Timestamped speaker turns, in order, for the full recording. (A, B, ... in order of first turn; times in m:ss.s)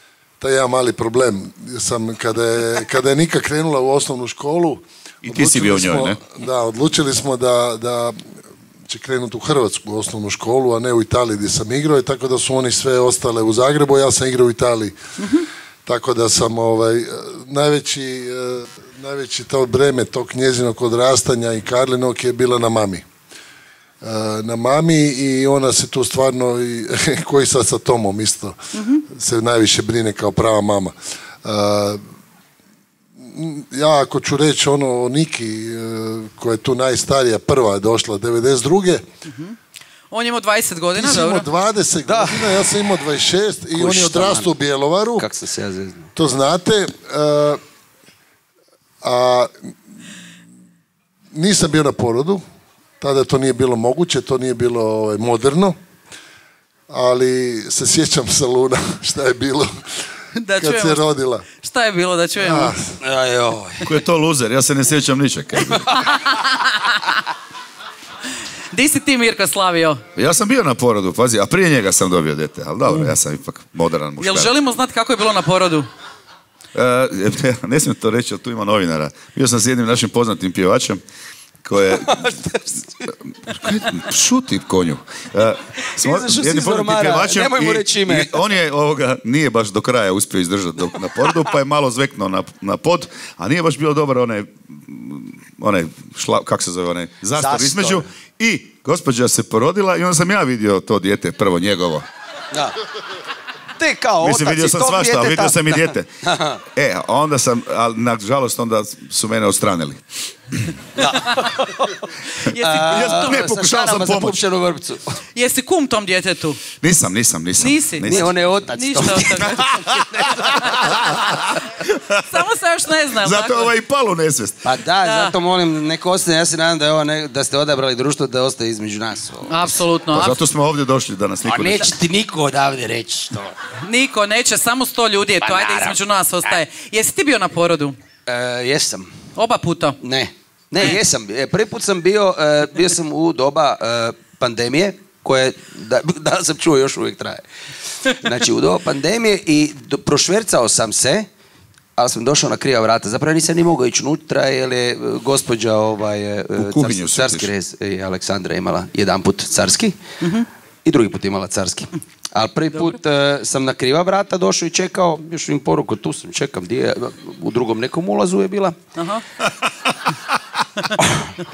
0:00.4-0:08.3 A
0:05.2-0:06.2 B
0:08.8-0:15.0 A
0:15.2-0:15.5 C
0:15.9-0:23.0 A
0:24.0-0:32.0 A
0:28.8-0:29.0 C
0:33.2-0:39.0 A
0:40.1-0:41.5 C
0:41.0-0:45.2 A
0:42.1-0:42.6 D
0:43.7-0:44.5 D
0:45.2-0:46.1 D
0:46.2-0:47.6 A
0:49.0-0:49.7 A
0:51.3-0:52.4 A
0:53.0-0:55.8 A
0:56.9-1:00.0 A
1:00.4-1:02.8 C
1:00.6-1:01.4 A
1:02.4-1:02.9 A
1:03.0-1:03.9 D
1:03.8-1:06.1 B
1:05.9-1:07.1 C
1:08.7-1:10.0 C
1:10.2-1:14.5 B
1:12.9-1:13.2 C
1:14.2-1:15.9 C
1:16.7-1:21.0 B
1:21.6-1:22.4 B
1:22.0-1:22.8 D
1:23.1-1:42.0 B
1:26.0-1:28.4 D
1:37.4-1:38.1 D
1:42.5-1:42.8 D
1:43.8-1:46.6 D
1:44.2-1:46.1 B
1:46.7-1:50.7 B
1:51.0-1:52.0 D
1:52.5-1:53.4 C
1:52.5-1:55.2 D
1:52.8-1:54.4 B
1:55.4-1:56.7 C
1:56.8-1:58.3 B
1:57.6-1:59.8 C
1:58.0-2:01.1 D
1:59.3-2:02.2 B
2:00.6-2:01.2 C
2:02.2-2:03.7 C
2:03.2-2:04.6 B
2:04.6-2:09.8 D
2:05.0-2:05.4 C
2:09.5-2:10.4 C
2:10.1-2:12.0 B
2:11.4-2:13.6 D
2:13.8-2:18.0 C
2:15.4-2:16.6 D
2:18.3-2:19.1 D
2:19.4-2:20.0 C
2:20.0-2:27.4 D
2:28.0-2:31.3 D
2:32.0-2:40.0 D
2:36.6-2:37.5 B
2:40.2-2:40.5 C
2:40.8-2:48.8 D
2:49.0-2:49.2 C
2:51.0-2:51.3 D